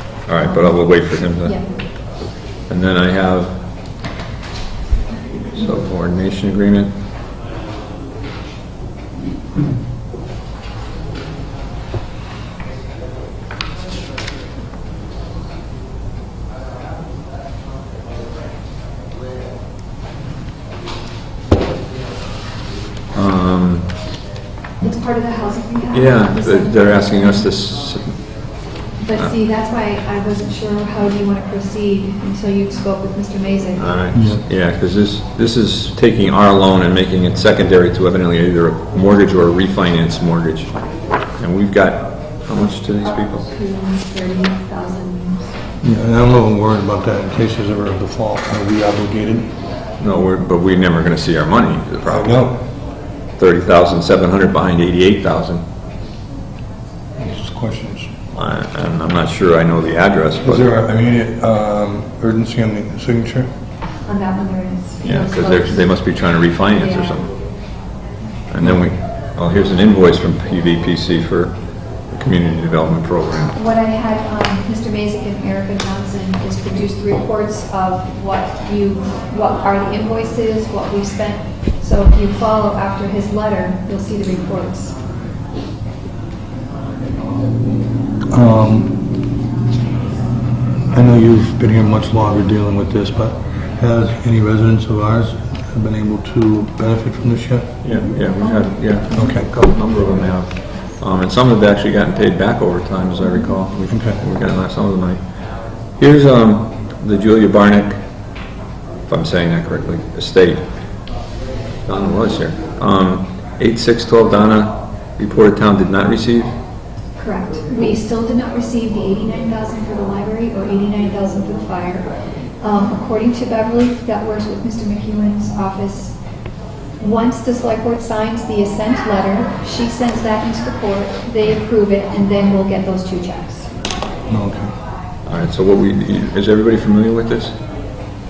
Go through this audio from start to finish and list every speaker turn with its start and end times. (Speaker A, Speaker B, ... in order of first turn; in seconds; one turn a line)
Speaker A: 0.3-3.6
Speaker A: 5.5-6.9
Speaker A: 23.1-24.0
Speaker B: 24.8-27.5
Speaker A: 25.9-29.3
Speaker B: 29.0-34.0
Speaker A: 33.8-43.5
Speaker C: 34.1-34.4
Speaker B: 43.4-45.6
Speaker C: 45.8-49.5
Speaker A: 50.0-52.4
Speaker C: 52.1-52.6
Speaker A: 53.4-55.6
Speaker C: 57.2-58.1
Speaker A: 58.3-60.7
Speaker C: 60.4-63.5
Speaker B: 64.0-67.2
Speaker A: 65.0-67.3
Speaker A: 68.5-73.6
Speaker B: 73.5-85.0
Speaker C: 88.3-88.9
Speaker C: 90.9-97.7
Speaker A: 97.8-105.2
Speaker C: 99.1-99.5
Speaker C: 103.9-104.2
Speaker A: 105.8-108.0
Speaker A: 109.1-110.6
Speaker A: 111.9-116.5
Speaker B: 117.2-126.2
Speaker B: 127.0-133.7
Speaker C: 134.3-134.7
Speaker A: 135.2-137.5